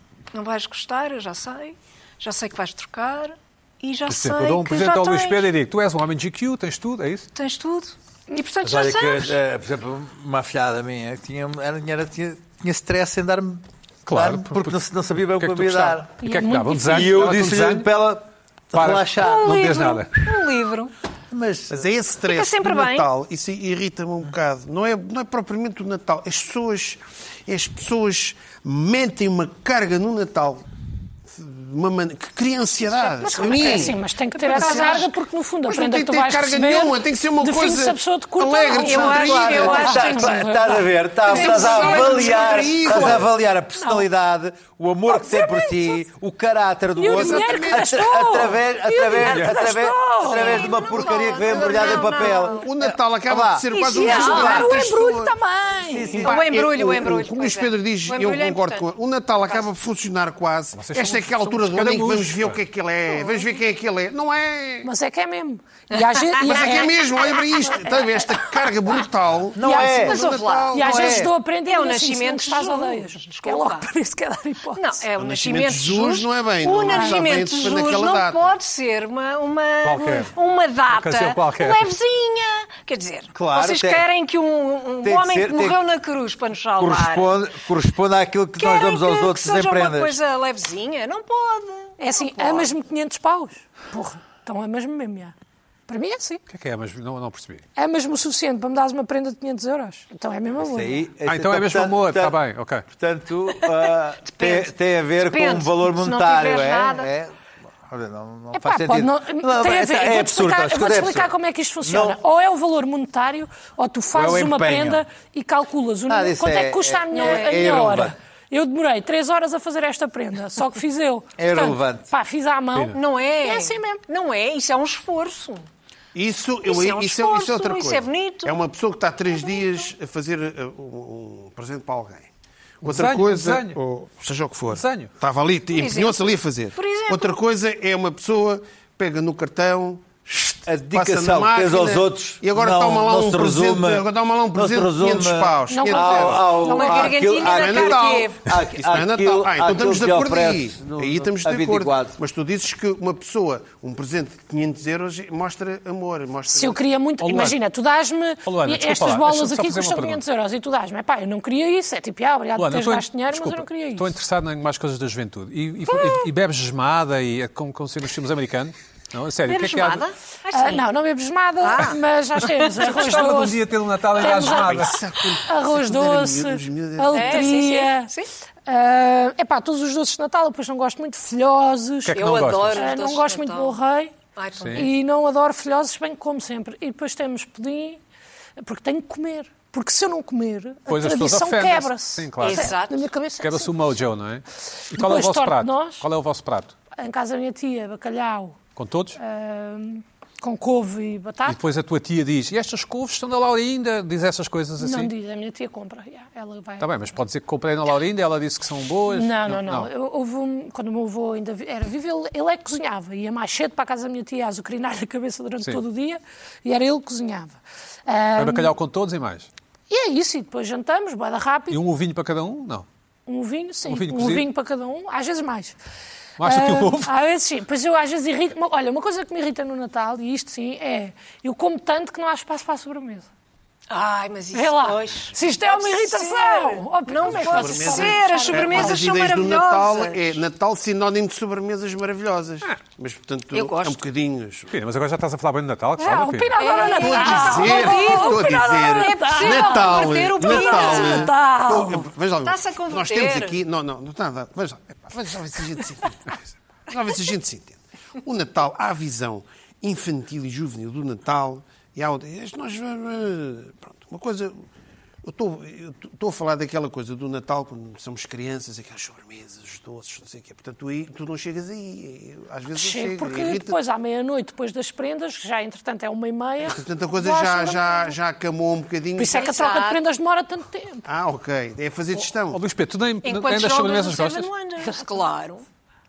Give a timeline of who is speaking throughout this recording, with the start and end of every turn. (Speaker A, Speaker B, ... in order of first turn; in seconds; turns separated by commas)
Speaker A: 0.3-5.5, Speaker B: 4.1-7.3, Speaker A: 7.3-9.3, Speaker C: 8.6-16.2, Speaker B: 14.1-17.9, Speaker D: 16.2-17.1, Speaker C: 16.8-19.8, Speaker B: 18.7-20.2, Speaker A: 19.1-20.9, Speaker C: 21.3-21.9, Speaker E: 21.7-30.6, Speaker A: 22.2-23.1, Speaker E: 31.3-35.1, Speaker A: 33.0-35.1, Speaker D: 33.2-43.2, Speaker E: 35.6-40.0, Speaker A: 38.7-40.4, Speaker C: 39.1-54.7, Speaker E: 41.2-43.3, Speaker A: 41.3-42.7, Speaker D: 43.8-44.1, Speaker D: 45.1-46.0, Speaker D: 47.0-50.8, Speaker E: 47.1-47.9, Speaker A: 50.3-52.7, Speaker E: 51.5-55.3, Speaker A: 53.7-54.8, Speaker D: 53.9-56.3, Speaker C: 55.9-56.4, Speaker E: 56.2-64.9, Speaker A: 56.2-58.9, Speaker B: 60.7-62.6, Speaker D: 64.8-68.2, Speaker A: 65.9-68.0, Speaker E: 66.4-71.2, Speaker C: 69.5-70.2, Speaker D: 69.6-70.2, Speaker A: 69.9-73.9, Speaker D: 70.7-75.0, Speaker C: 70.8-71.3, Speaker A: 74.8-87.4, Speaker E: 75.2-78.5, Speaker D: 76.9-77.2, Speaker B: 79.8-80.3, Speaker B: 80.9-81.8, Speaker C: 83.3-84.1, Speaker C: 85.0-85.8, Speaker C: 86.8-90.2, Speaker A: 88.6-92.7, Speaker D: 92.0-95.3, Speaker D: 95.9-96.4, Speaker B: 96.5-97.6, Speaker D: 97.8-101.1, Speaker C: 100.6-107.3, Speaker B: 101.2-102.8, Speaker A: 103.6-104.7, Speaker A: 105.2-107.1, Speaker C: 107.9-111.3, Speaker D: 108.5-124.0, Speaker C: 111.8-112.2, Speaker C: 114.1-115.0, Speaker C: 116.1-118.1, Speaker A: 117.1-117.9, Speaker C: 121.4-122.1, Speaker A: 122.9-125.7, Speaker E: 126.1-132.3, Speaker A: 126.6-128.6, Speaker A: 129.3-129.9, Speaker E: 132.8-156.8, Speaker B: 132.8-133.8, Speaker B: 134.7-135.1, Speaker A: 135.7-137.3, Speaker C: 140.6-152.2, Speaker D: 145.7-146.9, Speaker A: 146.6-148.4, Speaker D: 156.5-164.1, Speaker B: 157.2-157.6, Speaker B: 158.4-160.2, Speaker B: 162.6-170.0, Speaker A: 169.5-170.8, Speaker D: 170.5-173.6, Speaker A: 171.6-173.1, Speaker B: 172.8-175.0, Speaker D: 174.1-178.1, Speaker E: 174.3-177.6, Speaker A: 177.1-178.3, Speaker D: 178.7-184.1, Speaker B: 182.0-182.9, Speaker A: 182.2-183.8, Speaker A: 184.3-184.9, Speaker B: 184.6-184.9, Speaker D: 184.7-188.0, Speaker D: 188.6-193.7, Speaker B: 190.9-192.7, Speaker A: 192.4-193.1, Speaker B: 193.4-196.7, Speaker D: 194.9-196.1, Speaker D: 196.9-198.6, Speaker B: 198.8-199.2, Speaker D: 199.2-201.6, Speaker B: 201.5-205.1, Speaker D: 204.8-206.9, Speaker B: 206.8-209.9, Speaker D: 209.1-218.7, Speaker B: 218.3-219.5, Speaker D: 219.9-221.8, Speaker B: 221.7-222.8, Speaker D: 223.3-225.8, Speaker B: 223.8-224.4, Speaker B: 226.4-227.1, Speaker D: 226.4-233.3, Speaker A: 233.9-240.4, Speaker D: 234.5-239.1, Speaker E: 237.2-244.7, Speaker A: 243.5-244.0, Speaker B: 244.7-246.5, Speaker D: 246.0-252.1, Speaker A: 246.6-251.3, Speaker E: 246.8-264.6, Speaker A: 252.4-253.6, Speaker E: 265.2-273.8, Speaker D: 272.7-278.1, Speaker E: 276.7-279.4, Speaker D: 279.1-281.1, Speaker A: 279.3-280.0, Speaker E: 281.1-282.6, Speaker B: 282.2-284.5, Speaker A: 283.2-285.6, Speaker D: 284.8-285.2